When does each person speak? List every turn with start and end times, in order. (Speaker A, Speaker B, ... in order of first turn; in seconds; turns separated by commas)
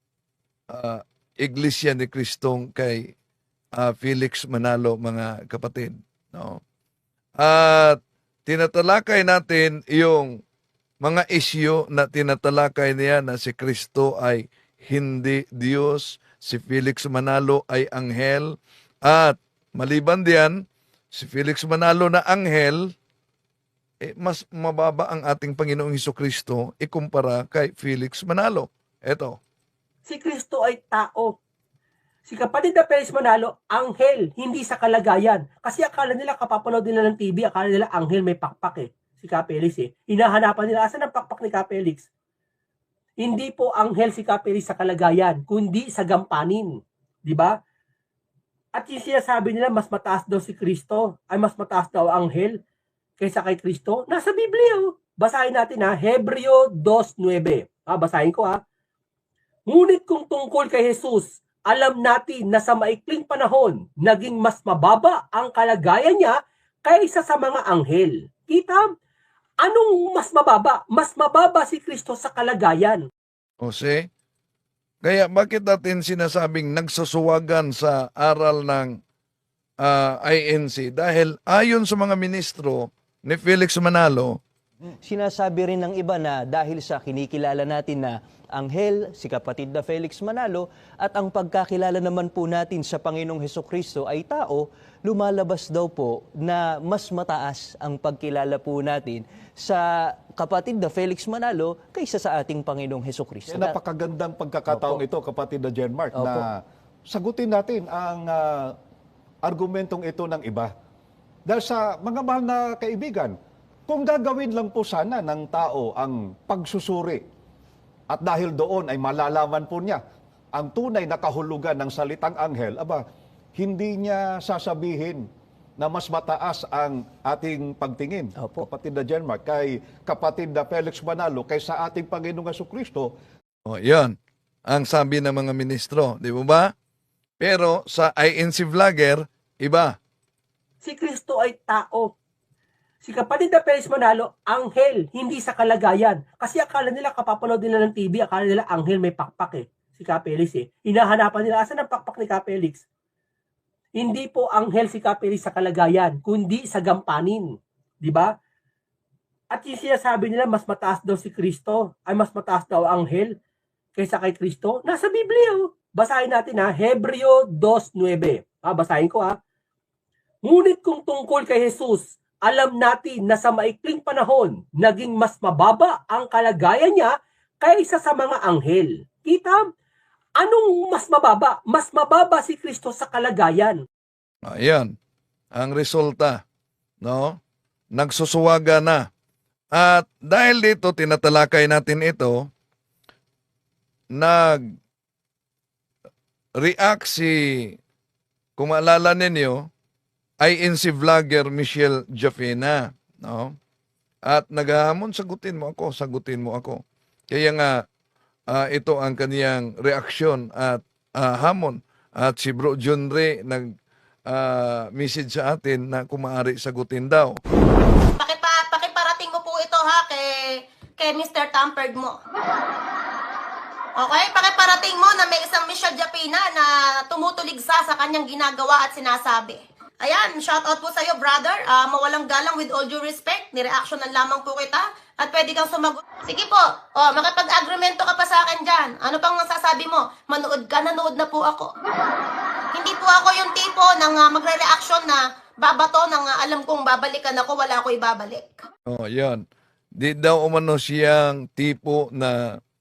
Speaker A: 0.7-3.1, Speaker A: 3.8-6.6, Speaker A: 7.4-10.4, Speaker A: 11.0-20.6, Speaker A: 21.1-22.9, Speaker A: 24.0-29.4, Speaker B: 30.1-31.4, Speaker B: 32.3-42.1, Speaker B: 43.2-46.7, Speaker B: 47.3-47.6, Speaker B: 48.8-52.6, Speaker B: 53.2-58.6, Speaker B: 59.7-68.9, Speaker B: 69.6-73.0, Speaker A: 73.6-74.1, Speaker A: 75.0-79.0, Speaker A: 79.8-84.4, Speaker C: 85.0-103.8, Speaker D: 103.5-108.8, Speaker C: 104.7-105.0, Speaker C: 106.1-106.5, Speaker D: 109.5-110.7, Speaker D: 111.5-113.3, Speaker D: 113.9-117.2, Speaker D: 118.1-120.0, Speaker D: 120.5-125.3, Speaker D: 125.8-133.1, Speaker C: 128.4-128.7, Speaker A: 133.7-134.2, Speaker A: 134.7-136.7, Speaker A: 137.4-140.0, Speaker B: 140.8-142.1, Speaker B: 143.0-152.8, Speaker B: 154.0-157.5, Speaker B: 158.0-158.3, Speaker B: 159.5-163.3, Speaker B: 164.0-169.3, Speaker B: 170.5-179.7, Speaker B: 180.4-183.8, Speaker A: 184.5-184.9, Speaker A: 185.6-186.4, Speaker A: 187.0-187.4, Speaker A: 187.9-189.1, Speaker A: 189.7-192.5, Speaker A: 194.2-194.7, Speaker A: 196.6-197.8, Speaker A: 198.6-199.7, Speaker A: 200.4-203.6, Speaker A: 204.3-207.8, Speaker A: 208.5-213.7, Speaker A: 214.3-217.4, Speaker E: 218.2-220.3, Speaker E: 221.0-222.2, Speaker E: 224.0-241.7, Speaker E: 242.8-248.5, Speaker A: 248.9-249.4, Speaker A: 250.0-252.6